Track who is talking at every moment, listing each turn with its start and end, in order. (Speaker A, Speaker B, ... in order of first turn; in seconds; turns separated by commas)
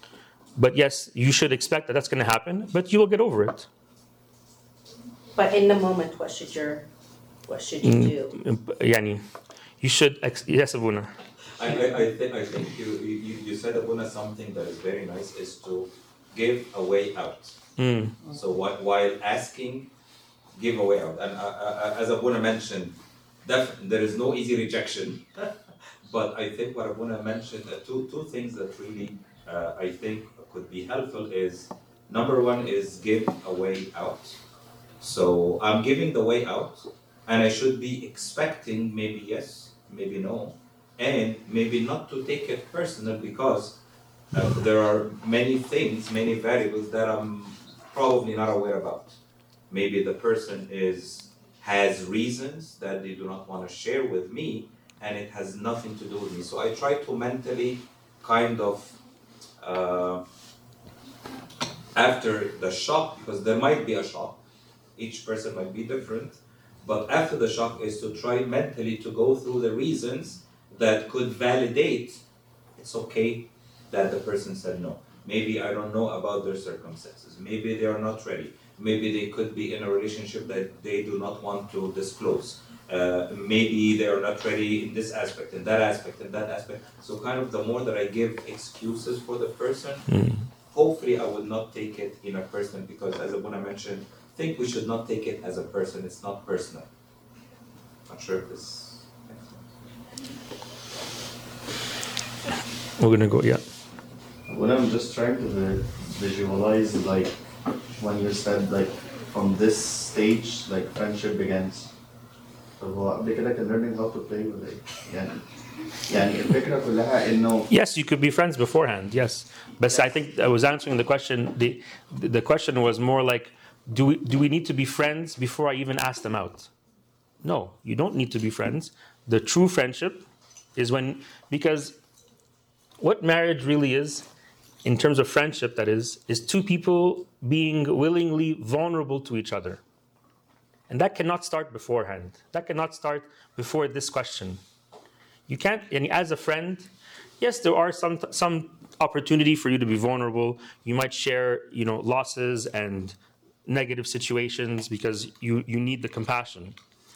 Speaker A: 0.6-3.7, Speaker B: 5.4-6.8, Speaker B: 7.5-8.3, Speaker A: 7.8-9.2, Speaker A: 9.8-11.1, Speaker C: 11.6-17.6, Speaker A: 17.8-18.2, Speaker C: 18.3-19.9, Speaker C: 20.6-25.3, Speaker C: 26.0-34.4, Speaker C: 35.0-43.8, Speaker C: 44.3-49.2, Speaker C: 49.7-59.0, Speaker C: 59.6-60.2, Speaker C: 62.0-64.4, Speaker C: 65.0-72.2, Speaker C: 72.8-90.1, Speaker A: 90.1-90.5, Speaker C: 90.7-96.9, Speaker C: 98.1-99.7, Speaker A: 103.0-103.6, Speaker D: 104.5-107.3, Speaker D: 108.0-111.9, Speaker D: 112.8-115.3, Speaker D: 116.1-117.7, Speaker A: 117.7-126.7, Speaker A: 127.4-130.2, Speaker A: 130.8-132.0, Speaker A: 133.0-134.3, Speaker A: 134.8-139.8, Speaker A: 140.9-144.6, Speaker A: 145.5-156.8